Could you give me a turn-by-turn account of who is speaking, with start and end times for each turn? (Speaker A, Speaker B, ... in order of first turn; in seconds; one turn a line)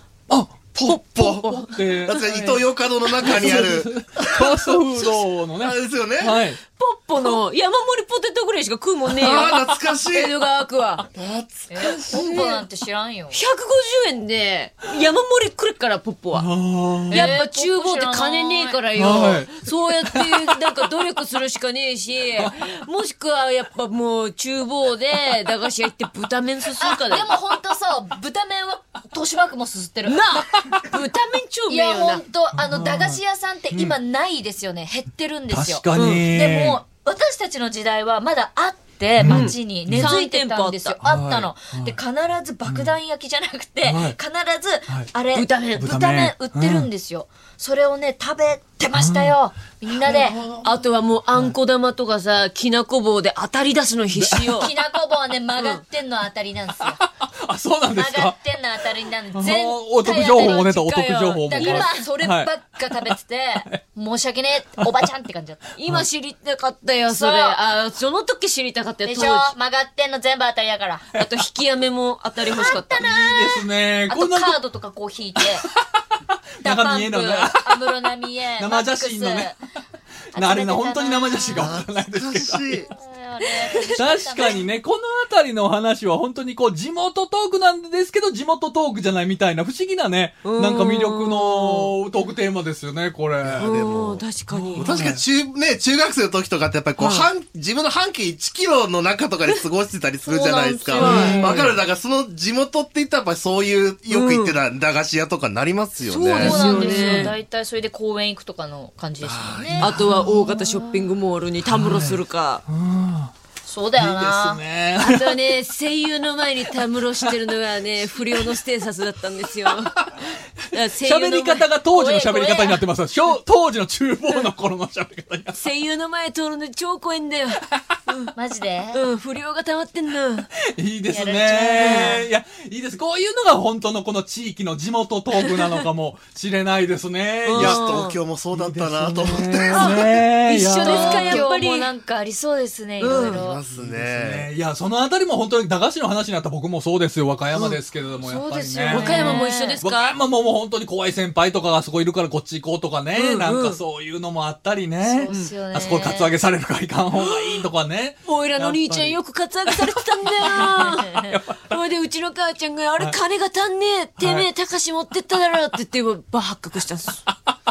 Speaker A: 0.3-2.6
Speaker B: 0.8-1.7
Speaker C: 2.0-4.8
Speaker A: 3.2-6.6
Speaker C: 5.6-6.4
Speaker B: 6.7-11.1
Speaker C: 9.1-10.4
Speaker C: 11.1-11.8
Speaker D: 11.7-13.4
Speaker B: 11.8-12.6
Speaker B: 13.3-16.5
Speaker A: 16.3-17.4
Speaker D: 17.1-18.9
Speaker B: 17.1-27.3
Speaker A: 18.9-20.6
Speaker D: 26.8-30.2
Speaker B: 30.1-32.2
Speaker D: 31.7-50.4
Speaker A: 32.5-34.0
Speaker A: 35.5-36.8
Speaker B: 35.9-36.2
Speaker A: 39.2-40.2
Speaker B: 39.2-41.0
Speaker A: 41.0-42.0
Speaker A: 42.6-42.9
Speaker A: 43.8-44.2
Speaker B: 45.3-45.9
Speaker A: 45.8-46.9
Speaker A: 48.9-49.4
Speaker A: 50.0-50.7
Speaker B: 50.0-54.7
Speaker A: 54.1-54.6
Speaker D: 54.5-57.0
Speaker B: 55.6-55.8
Speaker A: 56.8-58.4
Speaker D: 57.9-65.7
Speaker A: 59.3-63.8
Speaker B: 61.5-62.1
Speaker B: 65.8-69.5
Speaker D: 67.1-67.6
Speaker D: 69.0-71.1
Speaker B: 71.1-73.1
Speaker D: 72.5-75.7
Speaker A: 72.7-74.6
Speaker A: 75.4-75.7
Speaker A: 76.3-78.0
Speaker D: 76.6-79.6
Speaker A: 78.6-79.5
Speaker D: 80.3-81.8
Speaker A: 80.3-82.8
Speaker C: 81.5-82.9
Speaker D: 82.8-84.6
Speaker B: 83.6-83.9
Speaker A: 83.8-93.7
Speaker B: 90.4-91.9
Speaker C: 93.4-94.2
Speaker B: 93.6-94.9
Speaker A: 94.5-95.2
Speaker C: 94.8-107.0
Speaker B: 97.0-97.3
Speaker D: 100.3-101.6
Speaker B: 100.9-101.7
Speaker A: 101.0-101.8
Speaker B: 104.1-104.6
Speaker D: 106.1-110.5
Speaker B: 106.3-107.4
Speaker A: 109.2-110.8
Speaker B: 109.8-112.6
Speaker A: 111.6-113.3
Speaker D: 113.6-114.6
Speaker A: 114.0-115.5
Speaker B: 115.0-120.1
Speaker B: 120.7-121.7
Speaker A: 121.0-125.6
Speaker D: 121.9-122.8
Speaker B: 125.5-128.3
Speaker D: 128.3-129.0
Speaker B: 128.9-130.5
Speaker A: 130.7-137.9
Speaker D: 131.1-132.3
Speaker B: 131.7-132.2
Speaker B: 135.6-135.8
Speaker B: 137.4-138.2
Speaker C: 137.5-140.1
Speaker A: 138.5-141.4
Speaker B: 139.8-141.9
Speaker D: 140.8-143.6
Speaker B: 143.0-143.4
Speaker C: 143.1-144.5
Speaker A: 143.7-161.8
Speaker B: 147.5-150.1
Speaker D: 148.8-149.8
Speaker B: 153.1-153.8
Speaker D: 155.0-156.3
Speaker B: 155.3-155.5
Speaker B: 157.2-157.5
Speaker B: 158.3-167.2
Speaker D: 160.9-161.3
Speaker A: 164.2-164.5